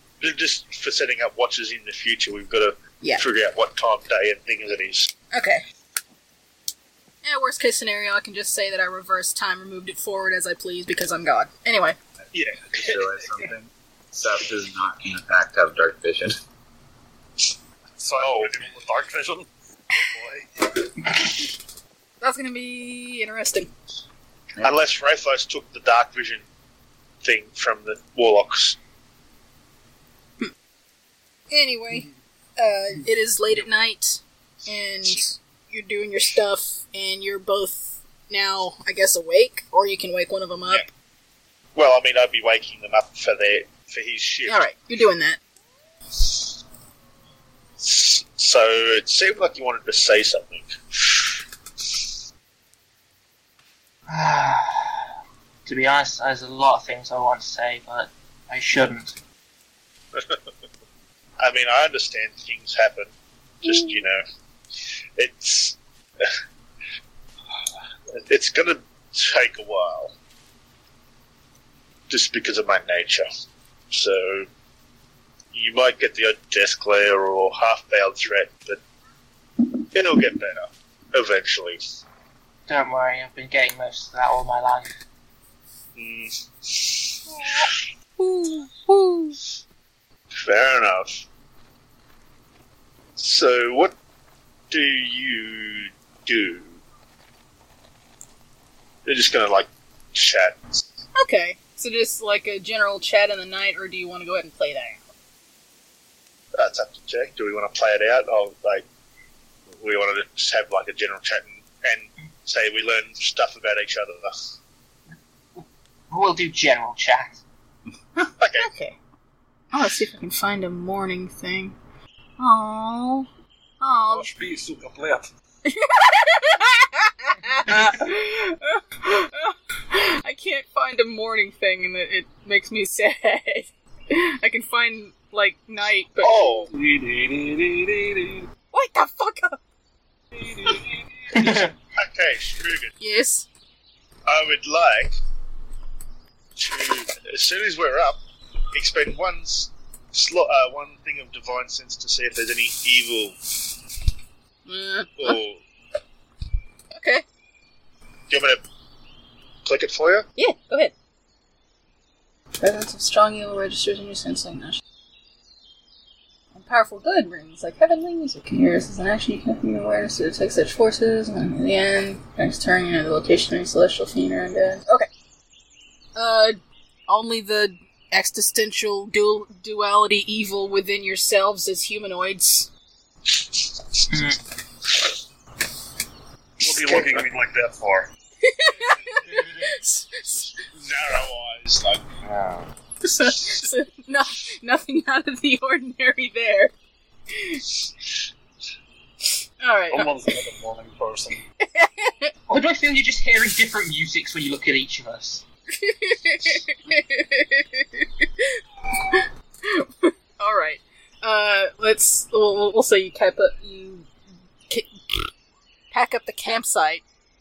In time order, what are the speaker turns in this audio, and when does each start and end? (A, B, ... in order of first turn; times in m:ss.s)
0:00.2-0:05.1 A
0:05.3-0:05.6 B
0:07.2-0:12.0 B
0:12.2-0:16.3 C
0:12.3-0:13.0 A
0:18.0-0:20.5 D
0:18.2-0:18.5 A
0:22.2-0:23.7 B
0:24.6-0:26.4 A
0:27.2-0:28.8 A
0:31.5-0:40.8 B
0:41.7-0:44.6 A
0:44.4-0:45.4 B
0:47.8-0:52.0 A
0:54.1-0:55.0 E
0:55.6-0:59.2 E
1:00.1-1:00.5 A
1:01.4-1:03.1 A
1:03.6-1:04.2 A
1:03.7-1:04.0 B
1:05.2-1:06.3 A
1:08.2-1:10.2 A
1:12.1-1:13.3 A
1:13.9-1:14.5 A
1:15.5-1:18.8 A
1:19.8-1:21.8 A
1:22.7-1:24.9 E
1:26.0-1:27.6 A
1:27.4-1:29.4 B
1:30.4-1:31.2 A
1:33.2-1:33.9 A
1:34.7-1:36.8 A
1:39.0-1:40.8 A
1:41.2-1:45.0 B
1:46.6-1:48.8 A
1:49.7-1:54.3 A
1:55.6-1:57.4 E
1:58.4-1:58.7 A
1:58.6-1:59.0 B
1:59.7-2:01.8 B
2:02.4-2:03.3 B
2:03.8-2:04.3 B
2:04.1-2:05.3 D
2:05.6-2:16.6 B
2:16.2-2:16.7 A
2:16.7-2:18.5 D
2:18.7-2:19.6 B
2:20.3-2:21.0 D
2:21.3-2:21.7 E
2:21.9-2:22.9 A
2:23.0-2:23.5 B
2:24.3-2:25.2 A
2:26.6-2:28.2 A
2:28.7-2:33.4 A
2:34.6-2:35.4 B
2:35.2-2:35.6 A
2:36.9-2:37.2 B
2:38.3-2:38.6 A
2:39.6-2:40.3 A
2:40.4-2:40.9 B
2:42.6-2:44.8 B
2:46.5-2:55.1 B
2:56.1-3:02.7 B
3:04.1-3:04.4 E
3:06.6-3:08.1 D
3:06.6-3:07.2 A
3:08.4-3:10.4 B
3:09.1-3:09.7 A
3:10.3-3:12.7 A
3:13.0-3:16.7 B
3:13.3-3:13.6 A
3:17.3-3:17.7 B
3:19.6-3:20.1 B
3:19.9-3:21.4 D
3:21.6-3:22.3 B
3:22.5-3:25.4 E
3:25.7-3:34.1 B
3:34.7-3:35.2 B
3:35.9-3:37.0 B